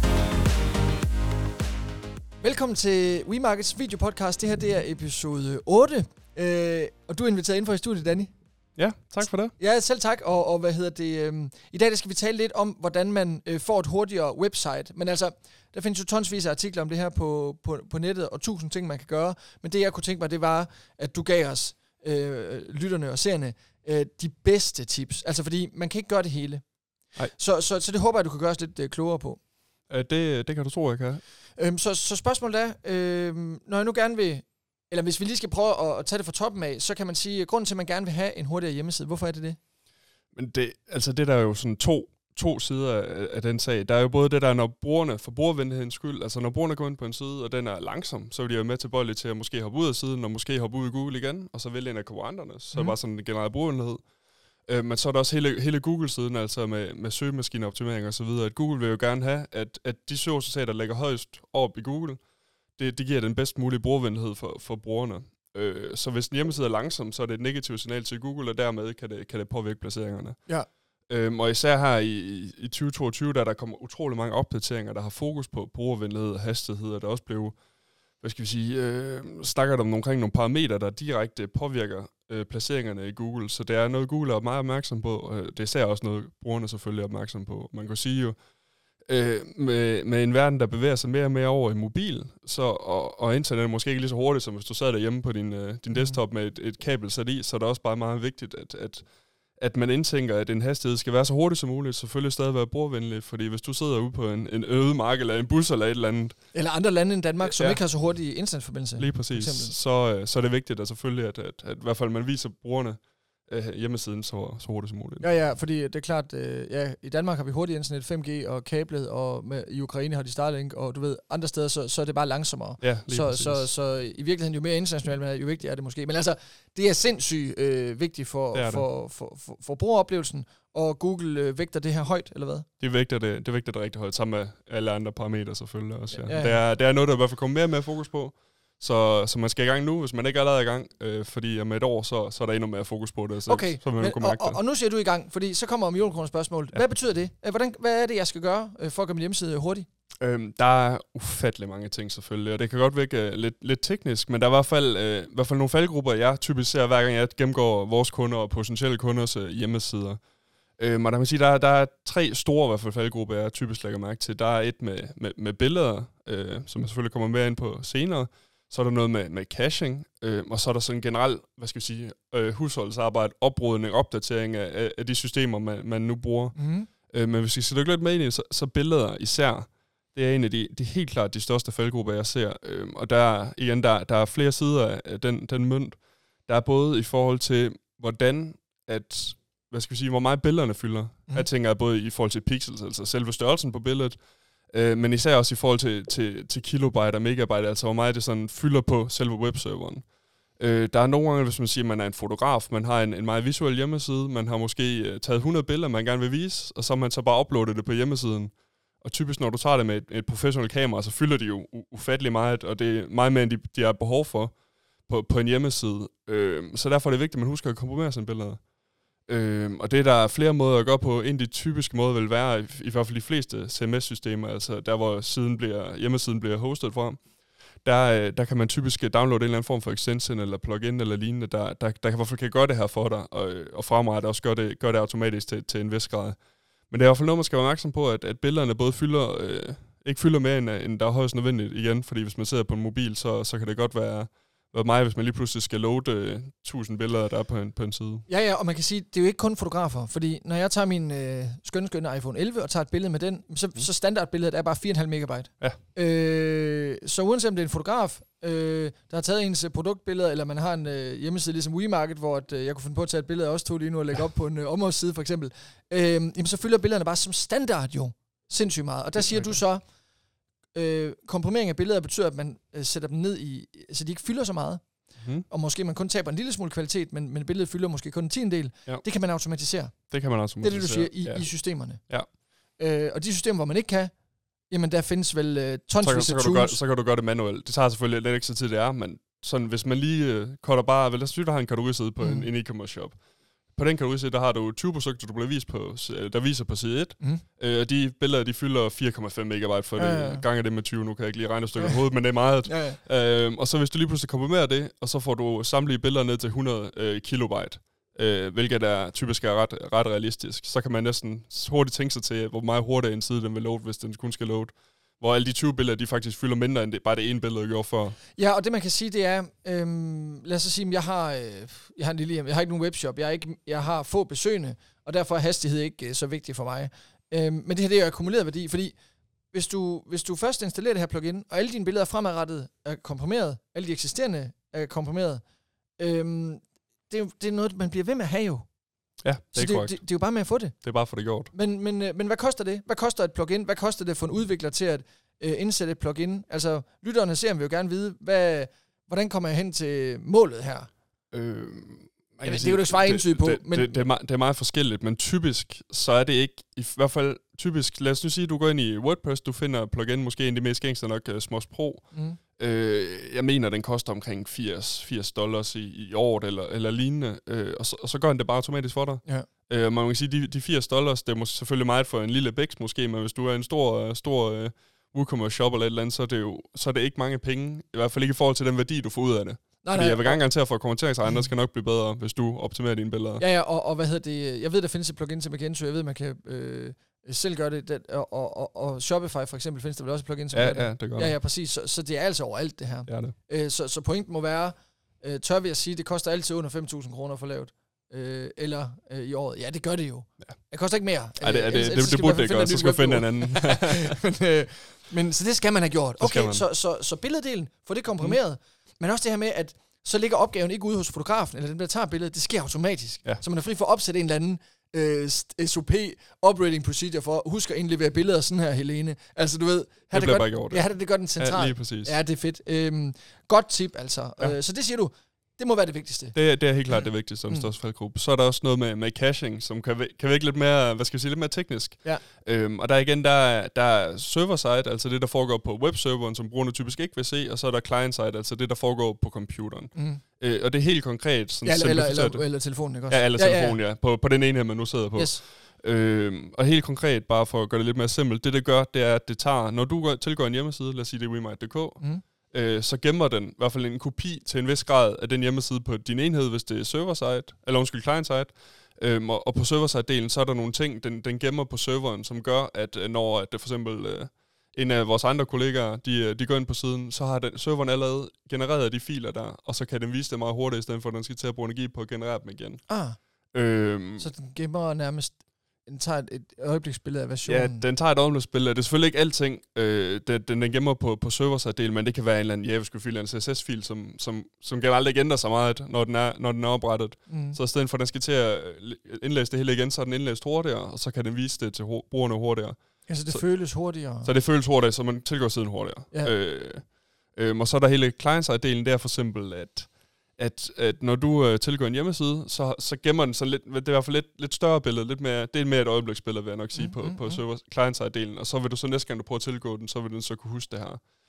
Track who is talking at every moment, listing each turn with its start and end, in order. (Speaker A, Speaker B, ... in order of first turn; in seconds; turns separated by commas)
Speaker A: 2.4-8.3, Speaker B: 8.8-9.5, Speaker A: 9.6-26.6, Speaker A: 27.3-29.4, Speaker B: 29.9-31.2, Speaker A: 31.6-39.6, Speaker B: 40.3-54.0, Speaker B: 54.7-62.2, Speaker B: 62.8-70.5, Speaker B: 71.1-77.6, Speaker B: 78.2-88.4, Speaker B: 89.1-99.0, Speaker A: 95.9-96.2, Speaker B: 99.6-106.4, Speaker A: 106.5-109.7, Speaker B: 107.5-107.8, Speaker B: 109.0-115.3, Speaker A: 115.2-132.7, Speaker B: 122.8-123.7, Speaker B: 128.5-128.8, Speaker B: 132.8-144.6, Speaker A: 136.1-136.6, Speaker A: 143.5-149.8, Speaker B: 150.2-160.2, Speaker B: 160.8-176.6, Speaker A: 176.6-176.9, Speaker B: 177.1-194.2, Speaker B: 194.7-200.1, Speaker B: 200.6-214.5, Speaker B: 215.1-218.6, Speaker B: 219.3-227.3, Speaker B: 227.8-248.2, Speaker A: 248.3-269.8, Speaker B: 269.2-269.6, Speaker A: 270.7-274.8, Speaker B: 275.2-275.4, Speaker A: 275.4-282.0, Speaker B: 280.1-282.3, Speaker A: 282.8-284.1, Speaker A: 284.7-286.8, Speaker B: 286.0-293.2, Speaker A: 292.2-292.5, Speaker B: 293.7-318.2, Speaker A: 300.0-300.4, Speaker A: 302.6-303.0, Speaker A: 318.4-328.9, Speaker A: 329.5-335.4, Speaker A: 336.0-338.6, Speaker B: 339.2-340.0, Speaker A: 339.5-340.9, Speaker B: 340.7-341.5, Speaker A: 341.5-350.9, Speaker B: 351.3-383.4, Speaker A: 352.4-354.0, Speaker A: 362.1-362.4, Speaker A: 379.8-380.4, Speaker A: 383.4-426.4, Speaker B: 390.5-391.3, Speaker B: 393.1-393.3, Speaker B: 401.4-404.2, Speaker B: 406.2-406.6, Speaker B: 420.1-422.1, Speaker B: 426.3-472.9, Speaker A: 426.9-427.7, Speaker A: 439.9-440.2, Speaker A: 441.6-443.8, Speaker A: 445.1-445.4, Speaker A: 472.9-473.2, Speaker B: 473.5-474.3, Speaker A: 474.2-477.8, Speaker B: 477.4-493.5, Speaker A: 487.3-487.6, Speaker A: 493.1-494.3, Speaker B: 494.2-511.0, Speaker A: 506.7-507.4